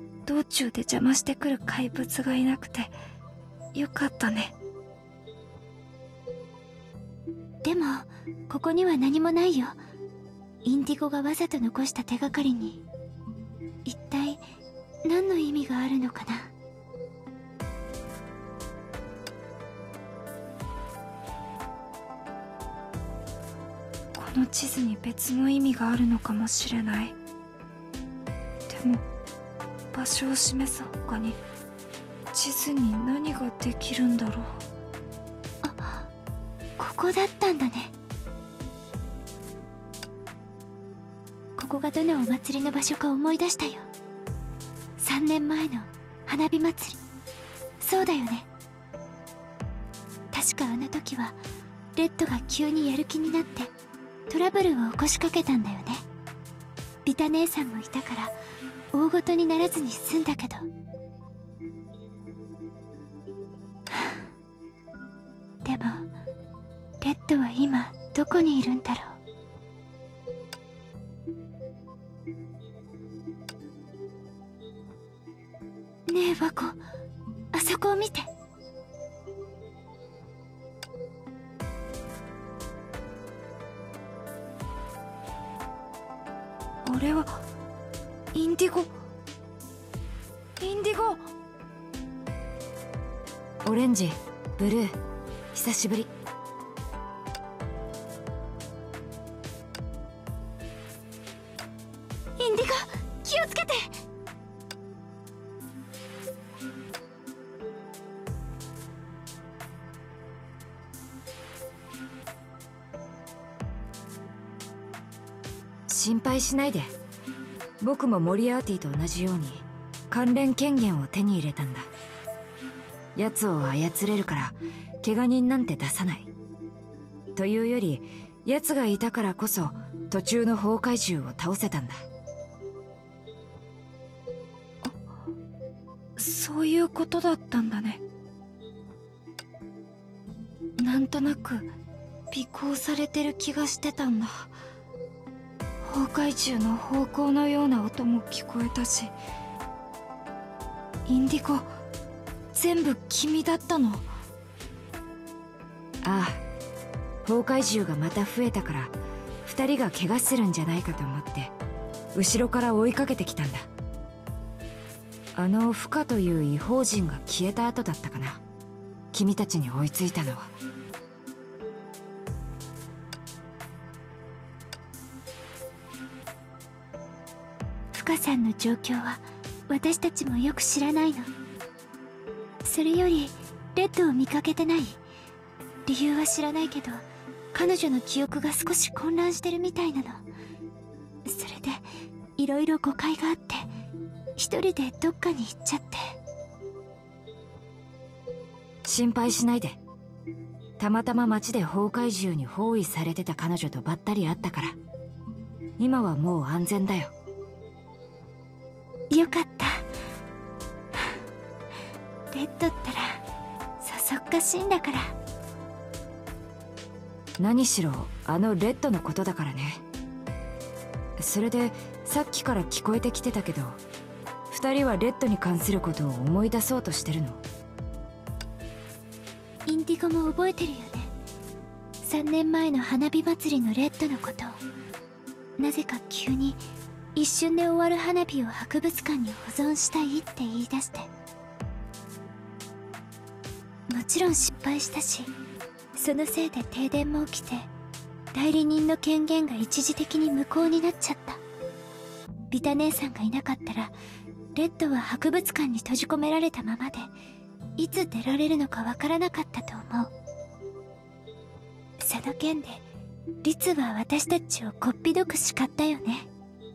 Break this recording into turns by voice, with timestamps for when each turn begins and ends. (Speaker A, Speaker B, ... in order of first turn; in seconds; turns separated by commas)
Speaker A: 0.3-2.9, Speaker A: 3.7-4.5, Speaker B: 7.6-9.8, Speaker B: 10.6-12.8, Speaker B: 13.8-14.4, Speaker B: 15.0-16.5, Speaker A: 24.1-27.1, Speaker A: 28.7-29.0, Speaker A: 29.9-31.4, Speaker A: 32.3-34.6, Speaker B: 35.6-36.1, Speaker B: 36.8-37.9, Speaker B: 41.6-43.9, Speaker B: 45.0-47.0, Speaker B: 47.8-48.5, Speaker B: 50.3-51.4, Speaker B: 52.0-53.7, Speaker B: 54.3-56.0, Speaker B: 57.0-58.4, Speaker B: 58.9-60.7, Speaker B: 63.9-64.2, Speaker B: 65.6-66.1, Speaker B: 67.0-69.2, Speaker B: 76.1-76.8, Speaker B: 77.5-78.3, Speaker A: 86.8-87.4, Speaker A: 88.3-88.9, Speaker A: 90.6-91.2, Speaker C: 93.7-95.0, Speaker C: 95.5-96.1, Speaker B: 102.4-103.9, Speaker C: 115.9-116.9, Speaker C: 117.8-121.9, Speaker C: 123.2-126.3, Speaker C: 127.3-132.1, Speaker A: 136.2-138.0, Speaker A: 140.8-141.7, Speaker A: 142.3-144.5, Speaker A: 145.8-149.1, Speaker A: 151.1-151.7, Speaker A: 152.5-154.1, Speaker C: 156.0-156.4, Speaker C: 157.2-161.5, Speaker C: 162.2-163.7, Speaker C: 165.3-168.4, Speaker C: 169.1-170.5, Speaker B: 177.9-181.3, Speaker B: 182.6-185.0, Speaker B: 185.9-190.2, Speaker B: 191.3-191.8, Speaker B: 192.4-193.7, Speaker B: 194.4-196.1, Speaker C: 198.8-199.8, Speaker C: 200.8-204.8, Speaker C: 205.8-207.1, Speaker B: 209.1-209.9, Speaker B: 212.3-213.2, Speaker B: 213.8-215.2, Speaker C: 217.4-219.8, Speaker C: 221.2-223.8, Speaker C: 224.5-227.4, Speaker B: 229.7-231.1, Speaker B: 232.0-234.6, Speaker B: 235.6-236.6, Speaker B: 237.2-241.1, Speaker B: 243.9-245.3, Speaker B: 245.9-247.7, Speaker B: 248.3-251.4, Speaker B: 252.5-253.9, Speaker B: 254.5-257.1, Speaker B: 257.8-260.1, Speaker B: 262.0-262.9, Speaker B: 263.4-266.3